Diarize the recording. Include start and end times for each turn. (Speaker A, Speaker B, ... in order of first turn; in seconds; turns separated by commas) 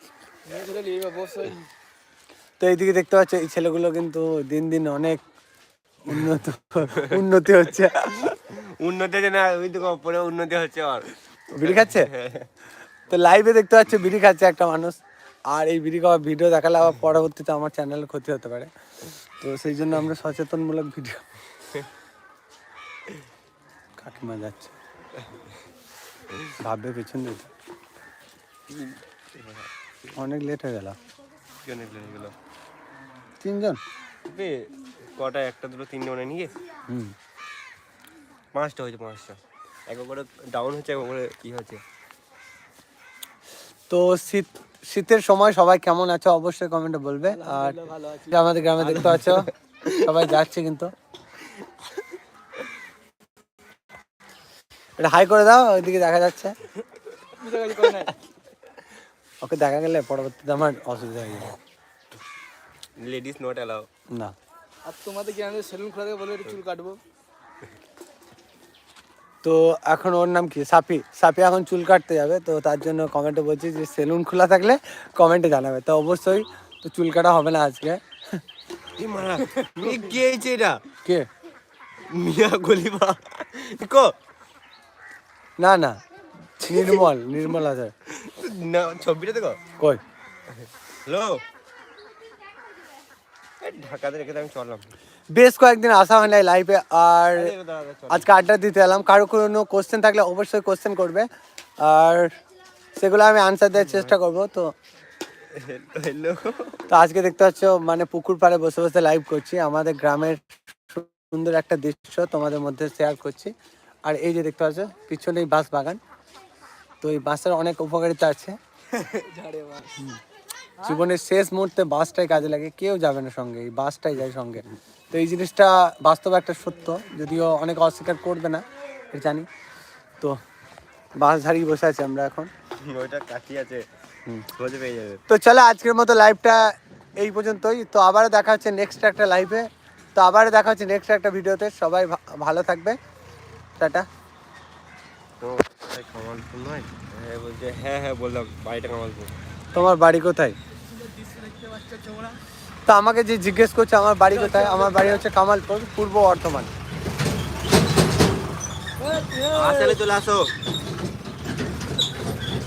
Speaker A: 0.5-1.6, Speaker B: 2.6-5.2, Speaker B: 6.0-8.2, Speaker C: 8.2-11.1, Speaker B: 11.5-12.1, Speaker C: 11.6-12.5, Speaker B: 13.1-18.7, Speaker B: 19.4-21.2, Speaker B: 24.0-24.7, Speaker B: 26.6-27.5, Speaker C: 28.7-30.1, Speaker B: 30.1-31.0, Speaker C: 31.6-32.3, Speaker B: 33.4-33.8, Speaker C: 34.2-36.5, Speaker B: 36.9-37.1, Speaker C: 38.5-41.8, Speaker B: 43.9-50.9, Speaker A: 47.3-48.4, Speaker C: 48.8-50.2, Speaker B: 55.0-56.5, Speaker A: 57.4-58.1, Speaker B: 59.4-61.5, Speaker C: 63.0-63.9, Speaker A: 64.8-67.0, Speaker B: 69.4-78.4, Speaker C: 79.0-80.8, Speaker B: 81.0-81.3, Speaker C: 82.1-84.1, Speaker B: 85.6-86.0, Speaker B: 86.6-87.9, Speaker C: 86.7-87.1, Speaker C: 88.1-89.6, Speaker C: 91.0-91.4, Speaker C: 93.6-94.9, Speaker B: 95.3-97.5, Speaker C: 97.3-98.3, Speaker B: 98.1-101.3, Speaker B: 101.8-102.3, Speaker B: 103.0-104.7, Speaker C: 103.8-104.1, Speaker C: 105.5-106.9, Speaker B: 106.9-113.5, Speaker B: 114.0-116.0, Speaker B: 117.0-118.6, Speaker A: 118.9-120.0, Speaker B: 120.8-129.5, Speaker B: 131.2-132.5, Speaker C: 132.8-133.9, Speaker C: 134.5-135.2, Speaker B: 135.3-143.0, Speaker B: 143.8-144.1, Speaker C: 145.4-149.3, Speaker B: 149.7-150.6, Speaker A: 150.8-152.4, Speaker B: 152.9-156.7, Speaker A: 154.3-155.2, Speaker A: 159.0-160.0, Speaker C: 159.5-160.5